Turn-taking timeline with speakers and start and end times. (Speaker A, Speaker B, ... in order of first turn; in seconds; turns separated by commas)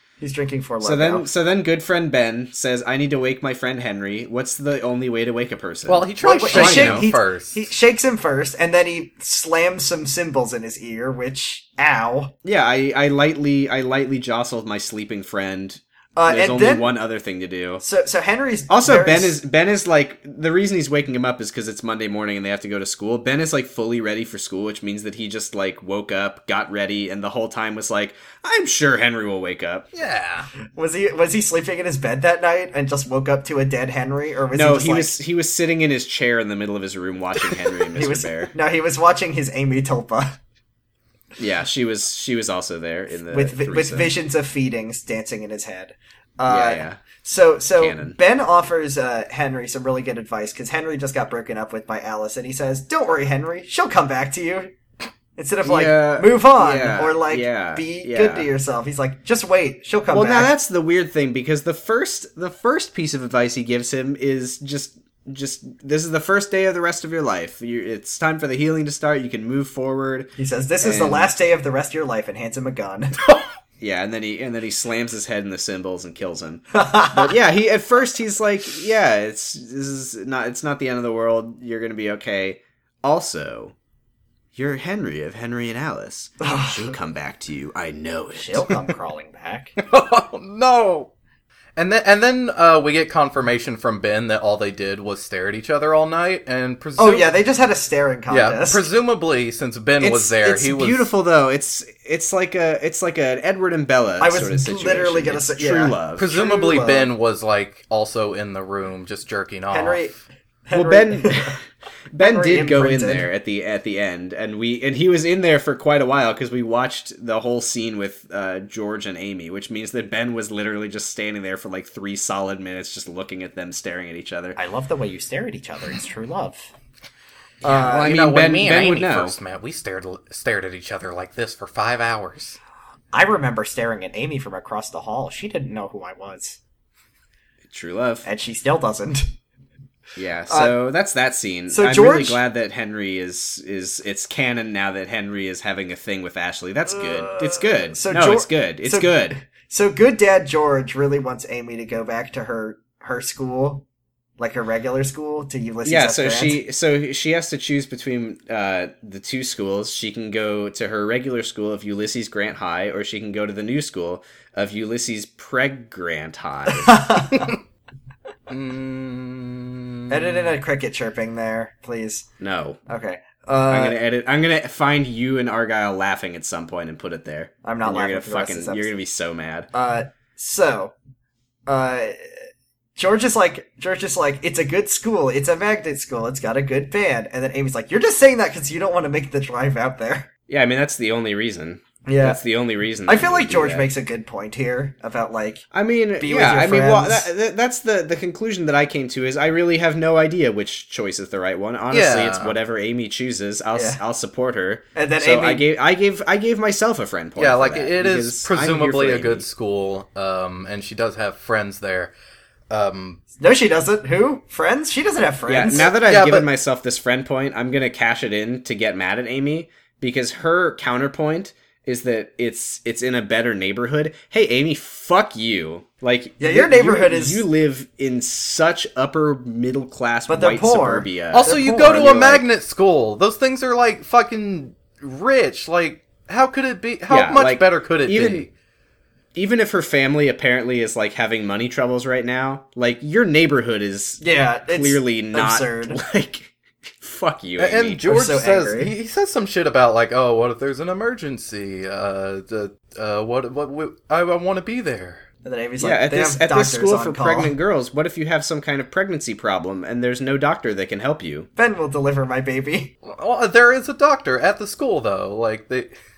Speaker A: 0.2-1.3, Speaker B: 0.8-7.1, Speaker C: 5.9-7.7, Speaker A: 6.2-12.3, Speaker B: 12.4-17.8, Speaker A: 16.2-16.9, Speaker A: 17.8-19.4, Speaker B: 18.7-29.9, Speaker C: 29.9-30.5, Speaker A: 30.7-35.2, Speaker B: 34.5-38.5, Speaker A: 37.9-40.4, Speaker B: 41.4-44.1, Speaker A: 43.3-54.8, Speaker B: 46.5-47.0, Speaker B: 47.8-48.2, Speaker A: 55.4-60.5, Speaker B: 55.6-58.5, Speaker B: 60.1-71.3, Speaker A: 70.4-73.3, Speaker B: 73.8-83.8, Speaker A: 76.7-77.3, Speaker B: 84.5-88.7, Speaker A: 86.4-86.8, Speaker A: 88.4-89.8, Speaker C: 89.8-91.1, Speaker C: 91.8-97.3, Speaker A: 97.0-98.8, Speaker C: 98.3-101.1, Speaker B: 100.0-106.3, Speaker A: 104.2-107.1, Speaker C: 106.2-110.1, Speaker A: 109.7-111.6, Speaker B: 110.7-111.6, Speaker B: 112.1-124.6, Speaker A: 112.2-113.3, Speaker A: 124.6-126.7, Speaker A: 127.6-128.2, Speaker B: 127.7-129.4, Speaker C: 127.8-132.6, Speaker A: 133.1-136.6, Speaker B: 137.7-138.2, Speaker A: 138.2-139.3, Speaker B: 140.2-149.4, Speaker A: 140.5-140.7, Speaker A: 141.7-142.4, Speaker A: 147.0-153.8, Speaker A: 154.4-156.6, Speaker B: 155.8-167.2, Speaker A: 166.8-167.5, Speaker C: 168.5-170.5, Speaker A: 170.1-172.3, Speaker B: 172.4-172.8, Speaker A: 172.9-174.0, Speaker B: 173.7-179.7, Speaker A: 177.6-178.9, Speaker A: 179.7-180.9, Speaker A: 181.7-182.3, Speaker A: 183.0-190.3, Speaker B: 190.5-193.9, Speaker A: 192.1-192.4, Speaker A: 193.1-195.7, Speaker B: 195.7-209.5, Speaker A: 196.2-197.3, Speaker C: 201.9-202.6, Speaker A: 203.7-204.0, Speaker A: 205.0-205.7, Speaker C: 207.4-212.1, Speaker C: 212.7-213.2, Speaker A: 213.4-215.9, Speaker B: 215.5-232.4, Speaker C: 215.9-216.5, Speaker A: 226.4-227.4, Speaker A: 230.3-232.3, Speaker C: 231.3-238.5, Speaker B: 237.1-238.5, Speaker B: 239.3-248.0, Speaker A: 244.2-246.0, Speaker C: 247.6-255.2, Speaker A: 248.1-248.9, Speaker A: 255.4-257.5, Speaker B: 255.8-261.5, Speaker A: 261.6-262.9, Speaker C: 263.0-266.0